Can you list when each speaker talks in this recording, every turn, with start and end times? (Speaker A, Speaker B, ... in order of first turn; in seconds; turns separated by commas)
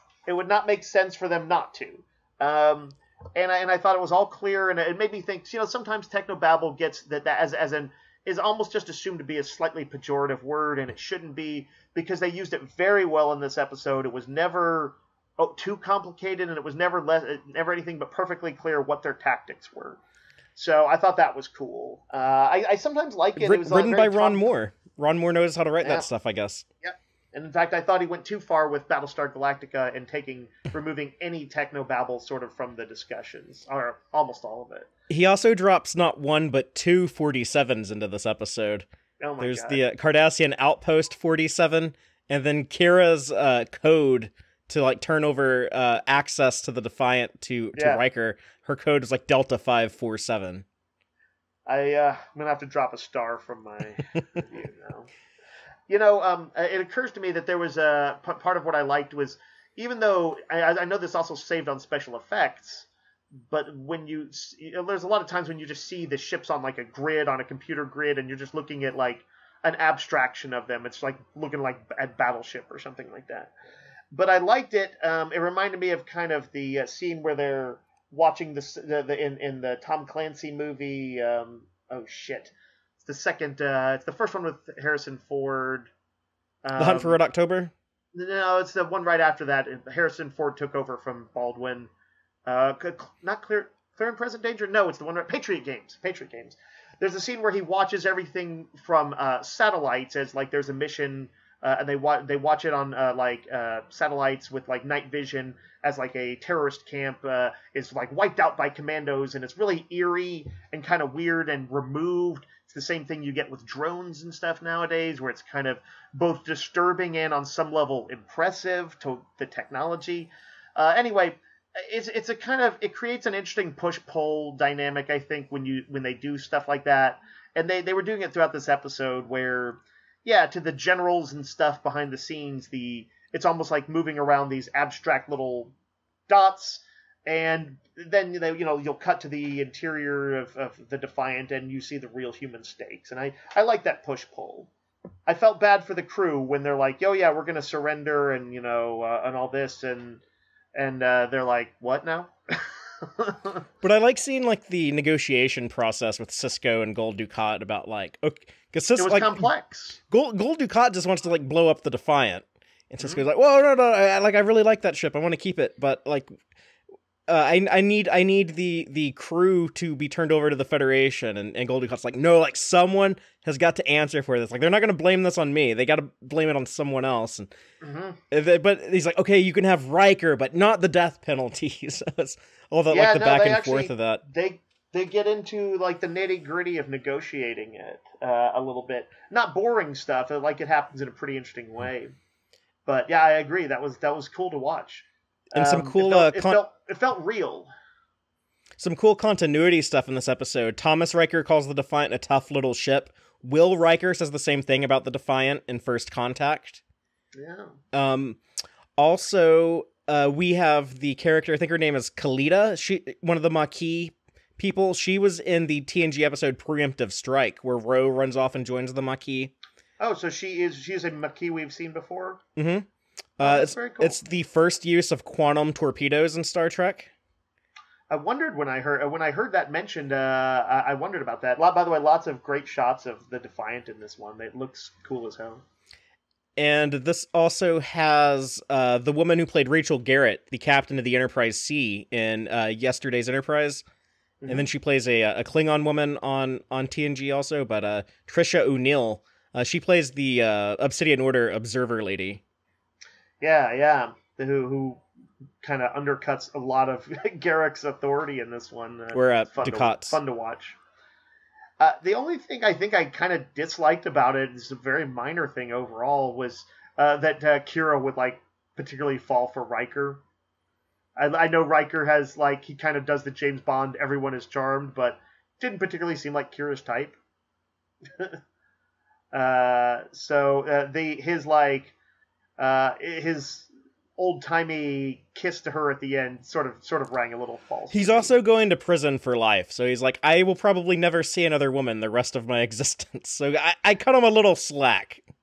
Speaker A: 0.3-20.0, Speaker A: 20.6-24.5, Speaker B: 23.4-26.6, Speaker A: 25.8-26.1, Speaker A: 26.8-34.9, Speaker B: 35.1-38.9, Speaker A: 39.2-39.8, Speaker B: 39.4-50.6, Speaker A: 47.8-48.0, Speaker A: 51.7-55.1, Speaker A: 55.9-73.5, Speaker A: 74.1-85.9, Speaker A: 86.6-87.2, Speaker B: 86.8-87.7, Speaker A: 88.1-91.9, Speaker A: 92.5-135.7, Speaker A: 136.3-144.7, Speaker A: 145.3-150.2, Speaker A: 150.8-153.6, Speaker B: 153.8-159.5, Speaker A: 159.0-160.0, Speaker B: 160.1-166.3, Speaker B: 167.3-177.5, Speaker A: 177.8-178.2, Speaker B: 178.3-184.2, Speaker A: 182.9-192.2, Speaker A: 192.9-197.7, Speaker B: 195.5-196.6, Speaker B: 198.8-206.8, Speaker A: 207.3-207.8, Speaker B: 207.9-208.4, Speaker B: 209.0-219.5, Speaker A: 220.0-222.4, Speaker B: 222.6-222.9, Speaker B: 223.4-227.1, Speaker A: 223.4-224.2, Speaker A: 228.1-235.6, Speaker B: 236.6-243.8, Speaker A: 244.4-244.7, Speaker B: 244.5-252.4, Speaker A: 253.4-255.0, Speaker A: 255.6-260.8, Speaker B: 259.1-260.2, Speaker A: 261.8-270.2, Speaker A: 271.2-277.2, Speaker A: 279.3-281.9, Speaker A: 282.6-288.3, Speaker B: 287.9-295.2